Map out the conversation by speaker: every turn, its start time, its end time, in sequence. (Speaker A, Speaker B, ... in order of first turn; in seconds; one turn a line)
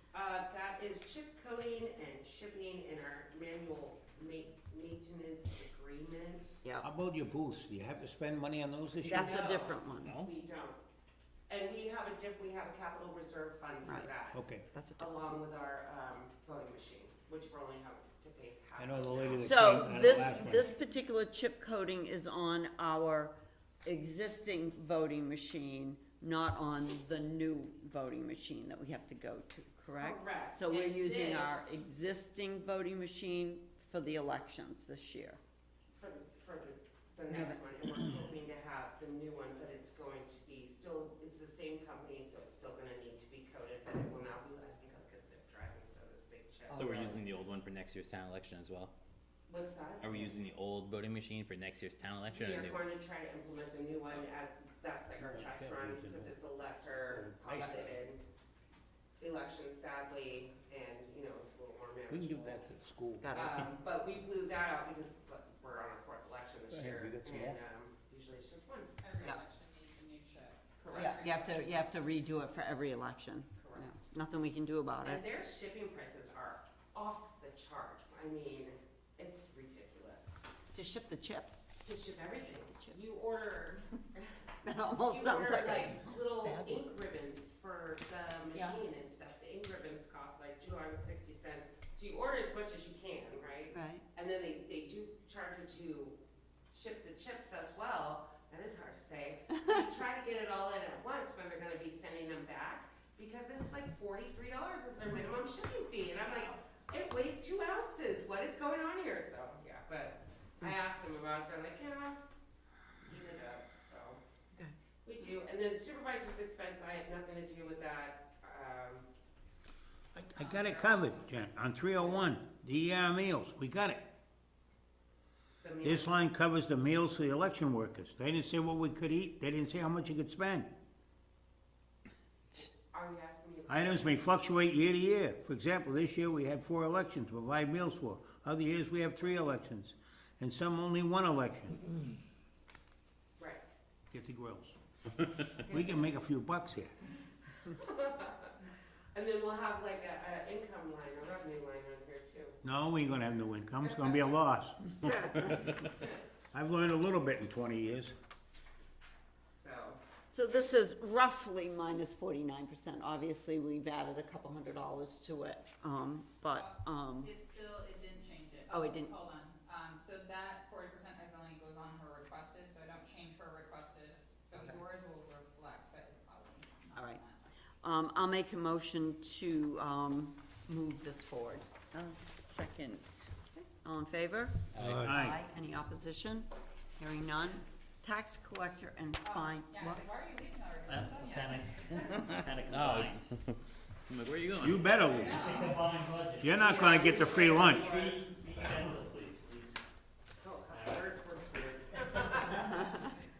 Speaker A: 0.1-6.6
Speaker B: 6.8-9.6
Speaker C: 9.0-10.2
Speaker A: 9.1-10.8
Speaker D: 9.9-10.3
Speaker A: 11.5-14.4
Speaker C: 13.8-14.1
Speaker B: 14.3-14.7
Speaker C: 14.7-15.2
Speaker A: 15.0-20.6
Speaker B: 18.8-20.7
Speaker C: 19.4-35.4
Speaker A: 30.0-31.8
Speaker A: 35.9-47.2
Speaker C: 37.3-37.6
Speaker D: 46.7-48.9
Speaker A: 49.5-50.3
Speaker D: 50.0-52.9
Speaker A: 52.3-58.2
Speaker B: 55.2-56.4
Speaker B: 57.1-58.0
Speaker A: 59.2-62.6
Speaker B: 62.1-63.4
Speaker C: 63.2-63.6
Speaker A: 63.3-69.3
Speaker B: 66.7-67.6
Speaker E: 69.0-71.7
Speaker A: 70.8-71.4
Speaker C: 70.9-75.2
Speaker A: 73.6-74.0
Speaker A: 75.0-80.4
Speaker C: 80.7-81.5
Speaker A: 81.8-84.4
Speaker C: 82.5-83.0
Speaker C: 84.6-86.8
Speaker A: 85.0-96.2
Speaker C: 88.5-88.8
Speaker C: 93.7-94.0
Speaker A: 96.7-112.2
Speaker A: 113.0-114.2
Speaker A: 115.0-119.0
Speaker B: 120.1-124.0
Speaker E: 120.3-121.4
Speaker A: 125.6-126.1
Speaker B: 125.8-130.7
Speaker A: 132.5-134.2
Speaker B: 133.7-141.8
Speaker A: 143.4-143.6
Speaker B: 144.1-144.8
Speaker B: 145.6-146.9
Speaker A: 147.7-148.5
Speaker A: 149.1-152.6
Speaker B: 152.6-155.6
Speaker A: 153.8-154.2
Speaker C: 155.0-155.6
Speaker B: 156.5-158.1
Speaker A: 159.5-160.0
Speaker C: 160.3-167.3
Speaker E: 166.5-177.5
Speaker C: 168.7-169.1
Speaker C: 176.9-177.2
Speaker C: 177.8-190.0
Speaker D: 184.7-185.1
Speaker B: 184.8-185.4
Speaker E: 189.2-192.2
Speaker F: 190.8-193.3
Speaker D: 192.3-193.5
Speaker D: 194.1-195.2
Speaker B: 194.6-195.7
Speaker E: 195.1-195.8
Speaker F: 195.2-199.8
Speaker B: 196.4-197.9
Speaker A: 196.6-198.2
Speaker A: 200.4-202.9
Speaker F: 200.7-201.0
Speaker F: 201.9-202.5
Speaker C: 202.6-203.1